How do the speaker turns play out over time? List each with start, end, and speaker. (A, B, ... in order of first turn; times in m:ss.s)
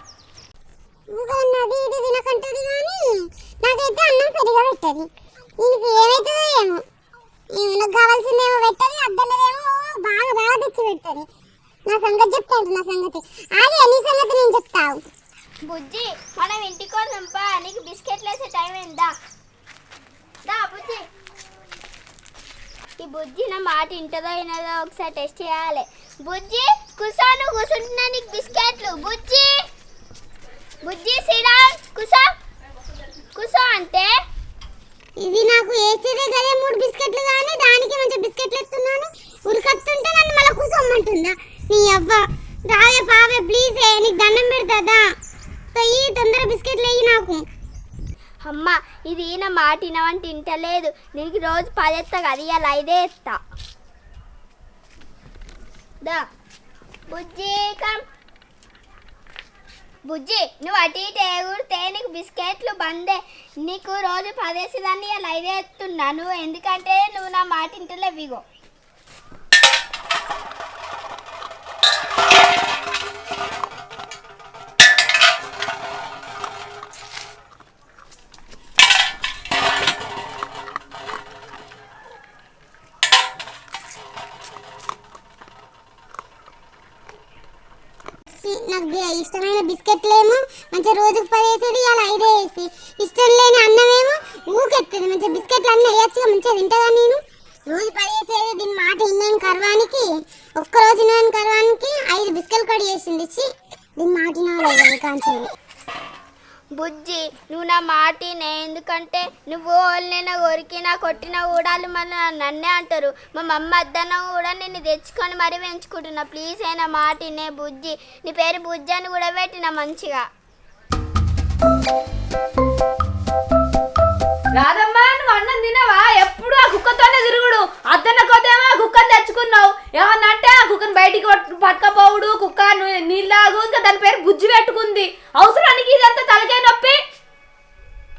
0:01.1-0:05.1 A
0:05.6-0:06.8 A
0:07.6-0:11.2 A
0:11.9-0:15.0 A
0:15.6-0:19.1 B
0:20.4-0:21.0 B
0:23.0-0:29.5 B
0:30.8-0:32.2 B
0:33.3-0:34.1 B
0:35.2-0:45.0 A
0:45.7-0:47.4 A
0:48.4-0:53.4 B
0:57.1-0:58.0 B
1:00.1-1:08.4 B
1:28.4-1:43.5 A
1:44.0-1:45.4 A
1:46.7-2:00.2 B
2:04.5-2:17.0 C